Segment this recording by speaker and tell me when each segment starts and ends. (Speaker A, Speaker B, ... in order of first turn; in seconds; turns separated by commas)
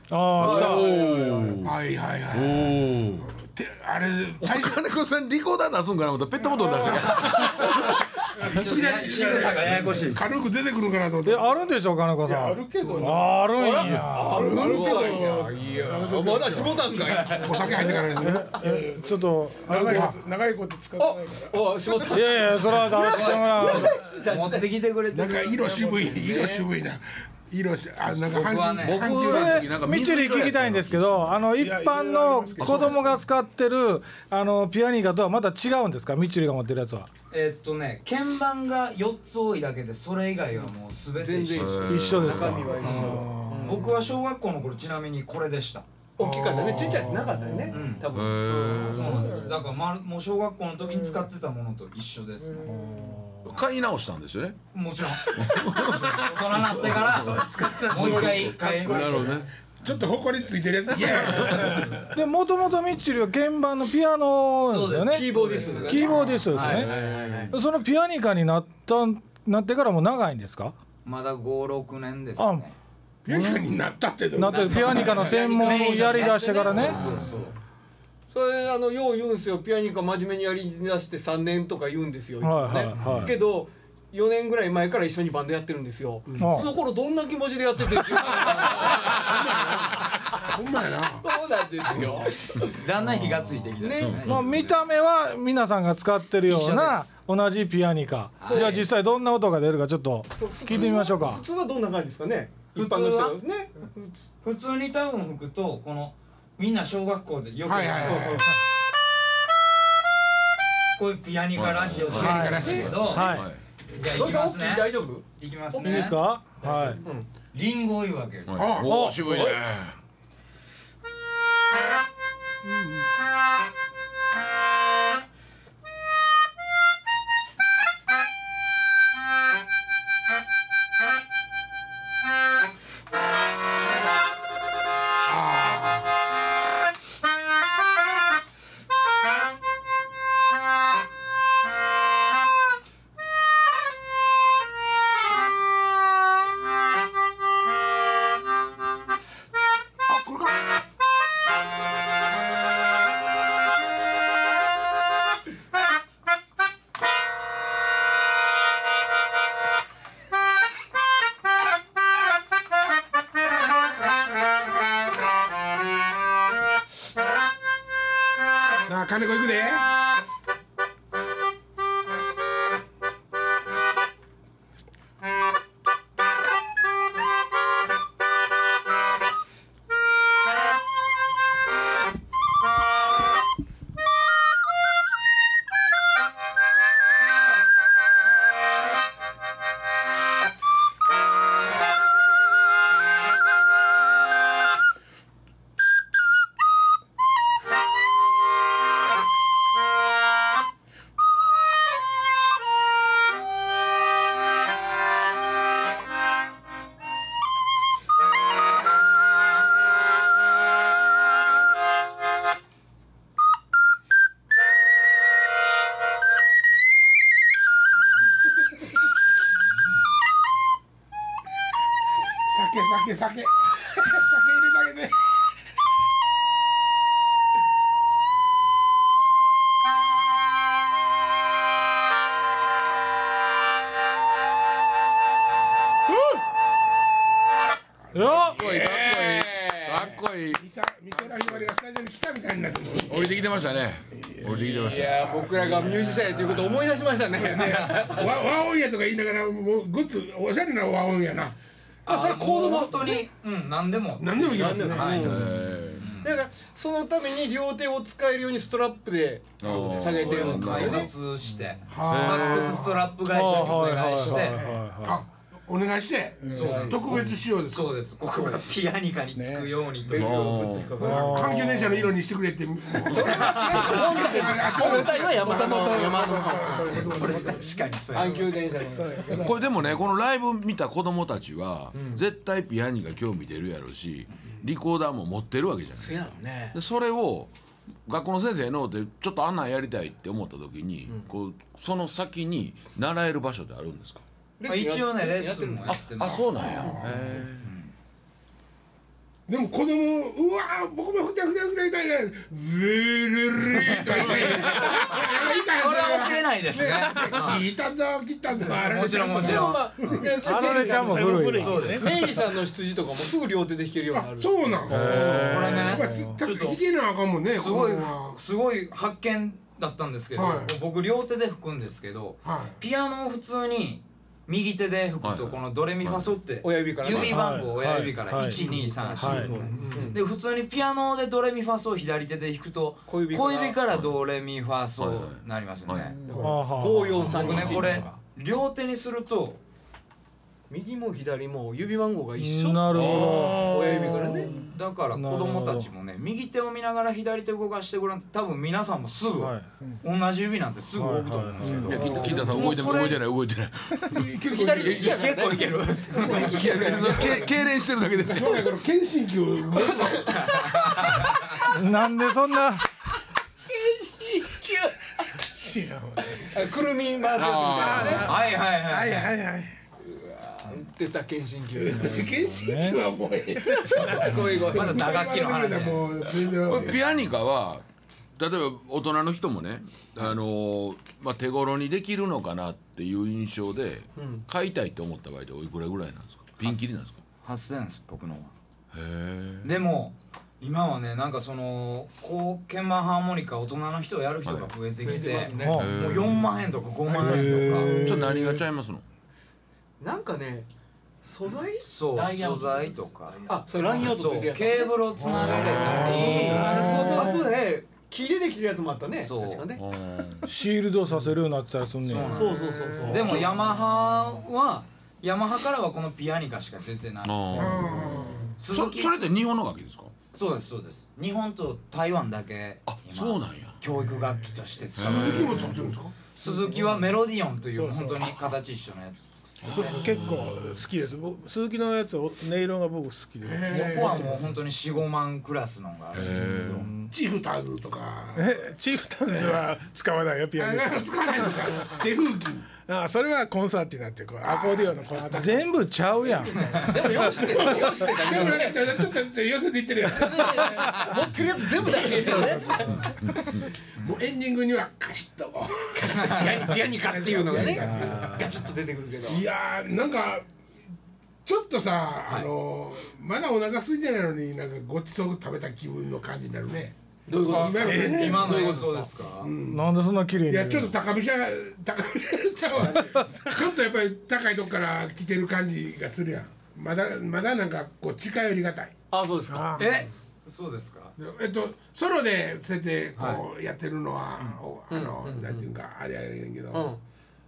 Speaker A: 0.1-0.9, Speaker B: 0.3-1.6, Speaker C: 0.4-1.7, Speaker D: 0.5-4.8, Speaker C: 2.3-3.3, Speaker C: 4.4-7.9, Speaker E: 6.4-7.8, Speaker F: 7.2-10.3, Speaker D: 8.4-11.6, Speaker A: 11.2-14.5, Speaker E: 12.2-22.1, Speaker B: 12.8-18.0, Speaker D: 13.0-13.3, Speaker D: 14.5-15.3, Speaker C: 14.6-15.3, Speaker F: 17.0-17.5, Speaker D: 17.2-18.8, Speaker A: 18.2-20.1, Speaker D: 19.7-20.2, Speaker B: 21.0-24.7, Speaker A: 22.1-23.9, Speaker F: 22.9-26.5, Speaker D: 25.1-29.8, Speaker B: 26.2-26.6, Speaker F: 28.2-29.2, Speaker C: 28.8-31.4, Speaker A: 29.2-37.1, Speaker E: 31.6-33.2, Speaker B: 32.6-32.9, Speaker F: 37.3-45.9, Speaker B: 41.2-44.1, Speaker C: 41.5-42.6, Speaker A: 41.9-43.8, Speaker B: 46.2-49.5, Speaker D: 46.2-47.4, Speaker F: 47.7-48.1, Speaker C: 48.0-49.4, Speaker F: 48.8-52.8, Speaker E: 49.0-49.6, Speaker E: 51.0-51.3, Speaker E: 52.4-53.2, Speaker A: 52.7-53.5, Speaker C: 53.5-54.6, Speaker F: 54.7-59.4, Speaker C: 55.3-57.2, Speaker E: 56.0-59.5, Speaker D: 57.9-58.5, Speaker C: 58.8-59.5, Speaker D: 59.8-62.0, Speaker E: 60.9-62.0, Speaker A: 62.1-66.9, Speaker F: 64.7-67.1, Speaker B: 65.1-67.6, Speaker A: 67.5-70.8, Speaker F: 71.0-72.7, Speaker A: 72.4-72.7, Speaker D: 73.2-75.4, Speaker A: 73.3-73.6, Speaker A: 74.4-77.0, Speaker B: 74.5-77.2, Speaker F: 74.9-77.5, Speaker B: 78.3-90.6, Speaker A: 82.4-83.4, Speaker C: 83.0-83.4, Speaker D: 86.3-86.6, Speaker A: 86.4-86.7, Speaker D: 89.1-91.3, Speaker B: 91.2-92.8, Speaker D: 91.9-92.2, Speaker F: 92.7-94.8, Speaker B: 93.8-94.2, Speaker C: 94.0-94.5, Speaker A: 94.2-101.4, Speaker F: 96.5-97.1, Speaker F: 98.4-98.8, Speaker B: 98.4-98.9, Speaker B: 100.4-104.2, Speaker F: 102.7-103.4, Speaker F: 104.4-108.4, Speaker D: 107.7-108.5, Speaker B: 108.1-108.5, Speaker F: 111.0-113.4, Speaker C: 111.6-113.6, Speaker D: 112.1-113.1, Speaker A: 112.2-113.5, Speaker F: 114.0-116.2, Speaker B: 114.0-116.0, Speaker A: 115.8-117.0, Speaker B: 116.6-117.3, Speaker F: 117.5-118.7, Speaker C: 118.5-120.0, Speaker D: 118.5-119.1, Speaker A: 118.8-119.6, Speaker D: 122.6-123.1, Speaker D: 135.3-136.1, Speaker D: 150.1-150.6, Speaker D: 168.9-169.9, Speaker D: 222.4-225.2, Speaker A: 238.1-238.6, Speaker D: 238.2-239.3, Speaker C: 238.5-240.6, Speaker B: 239.0-240.0, Speaker D: 240.5-243.4, Speaker C: 243.1-245.5, Speaker B: 244.4-248.3, Speaker D: 245.1-246.3, Speaker D: 247.3-251.6, Speaker B: 252.1-253.2, Speaker F: 252.1-256.3, Speaker D: 254.2-255.4, Speaker B: 254.5-255.5, Speaker C: 255.1-256.1, Speaker B: 256.2-261.1, Speaker C: 259.6-261.1, Speaker D: 259.7-259.9, Speaker F: 259.9-264.6, Speaker D: 261.9-263.2, Speaker C: 262.1-262.8, Speaker A: 263.2-265.2, Speaker D: 263.7-268.0, Speaker E: 266.4-266.7, Speaker F: 266.5-270.5, Speaker B: 266.6-267.2, Speaker E: 269.4-269.8, Speaker B: 270.0-271.4, Speaker C: 270.1-271.0, Speaker D: 271.0-277.6, Speaker A: 271.0-272.1, Speaker C: 273.1-273.5, Speaker B: 273.1-277.1, Speaker F: 273.4-274.0, Speaker E: 274.7-279.6, Speaker F: 277.1-278.5, Speaker B: 278.1-279.4, Speaker D: 279.3-279.6, Speaker C: 279.3-287.5, Speaker B: 281.9-282.2, Speaker B: 286.0-286.8, Speaker C: 288.1-294.2, Speaker B: 294.6-296.0, Speaker F: 294.7-296.7, Speaker C: 295.9-297.7, Speaker D: 296.3-297.5, Speaker F: 297.6-297.9, Speaker D: 299.5-311.1, Speaker F: 303.8-307.6, Speaker F: 308.7-310.2, Speaker B: 309.3-315.5, Speaker E: 310.4-312.4, Speaker A: 310.4-312.0, Speaker F: 311.6-312.2, Speaker D: 314.1-318.4, Speaker C: 314.9-315.9, Speaker F: 315.1-316.8, Speaker A: 315.9-316.4, Speaker F: 317.6-336.2, Speaker D: 320.4-320.8, Speaker D: 322.4-322.8, Speaker C: 325.2-326.3, Speaker B: 326.6-327.5, Speaker A: 327.1-328.6, Speaker B: 328.4-330.2, Speaker A: 329.2-329.7, Speaker D: 329.7-330.1, Speaker B: 333.1-333.8, Speaker C: 335.0-336.2, Speaker B: 336.3-338.1, Speaker A: 336.4-338.0, Speaker F: 337.2-339.6, Speaker C: 337.3-337.9, Speaker B: 340.7-344.5, Speaker A: 342.4-344.5, Speaker C: 342.9-344.1, Speaker F: 344.7-353.2, Speaker A: 345.1-345.9, Speaker A: 349.4-349.7, Speaker A: 351.0-352.2, Speaker E: 351.6-352.0, Speaker C: 351.7-354.3, Speaker B: 352.0-352.9, Speaker D: 352.0-352.6, Speaker D: 354.1-355.4, Speaker B: 354.5-357.6, Speaker F: 354.8-357.3, Speaker D: 356.1-357.1, Speaker C: 356.3-358.7, Speaker D: 358.2-360.9, Speaker B: 359.9-360.6, Speaker F: 360.8-361.3, Speaker A: 361.6-362.8, Speaker B: 363.7-365.1, Speaker E: 365.4-366.8, Speaker B: 366.3-368.3, Speaker C: 367.3-368.3, Speaker E: 367.8-369.8, Speaker F: 368.0-369.3, Speaker B: 370.0-372.3, Speaker D: 371.8-377.0, Speaker A: 372.5-373.0, Speaker B: 373.7-375.0, Speaker E: 373.8-374.6, Speaker F: 374.7-376.1, Speaker C: 376.7-377.8, Speaker C: 378.4-387.2, Speaker B: 384.2-384.4, Speaker F: 386.6-388.5, Speaker C: 388.9-389.7, Speaker F: 389.6-398.0, Speaker C: 394.5-394.7, Speaker B: 395.0-395.9, Speaker A: 395.5-395.9, Speaker C: 395.6-396.5, Speaker E: 397.1-398.3, Speaker A: 397.2-398.6, Speaker C: 398.0-399.0, Speaker B: 400.0-400.7, Speaker B: 401.2-402.9, Speaker F: 401.8-407.2, Speaker B: 403.5-409.8, Speaker D: 405.2-407.3, Speaker C: 405.5-406.8, Speaker A: 406.6-407.1, Speaker E: 406.6-407.4, Speaker F: 409.2-409.7, Speaker C: 409.8-410.5, Speaker A: 410.4-412.6, Speaker F: 412.0-417.9, Speaker B: 412.3-413.6, Speaker E: 412.7-413.4, Speaker C: 417.2-420.1, Speaker D: 417.5-418.6, Speaker F: 418.6-419.4, Speaker F: 420.3-425.7, Speaker C: 422.9-423.8, Speaker C: 425.0-425.8, Speaker D: 425.0-426.1, Speaker F: 426.3-430.0, Speaker E: 426.4-427.1, Speaker E: 427.7-428.4, Speaker C: 429.6-430.8, Speaker E: 429.7-434.5, Speaker D: 433.4-434.6, Speaker F: 433.7-436.7, Speaker C: 436.1-436.9, Speaker D: 436.5-438.6, Speaker A: 436.8-437.1, Speaker E: 438.4-442.0, Speaker D: 439.3-439.6, Speaker D: 440.6-442.7, Speaker E: 442.8-445.8, Speaker D: 444.4-445.5, Speaker A: 445.4-447.1, Speaker D: 446.2-453.1, Speaker B: 446.5-449.0, Speaker B: 450.1-453.1, Speaker C: 453.2-453.5, Speaker D: 454.0-458.6, Speaker B: 455.9-459.4, Speaker A: 457.9-458.3, Speaker D: 459.2-460.4, Speaker D: 461.4-468.8, Speaker B: 467.3-469.1, Speaker F: 467.4-469.5, Speaker E: 467.9-468.5, Speaker D: 469.4-469.9, Speaker A: 469.7-470.9, Speaker D: 470.5-478.9, Speaker B: 479.1-480.1, Speaker E: 479.5-479.9, Speaker F: 479.8-481.1, Speaker D: 481.2-486.9, Speaker F: 483.2-483.4, Speaker B: 484.9-485.7, Speaker B: 486.7-487.0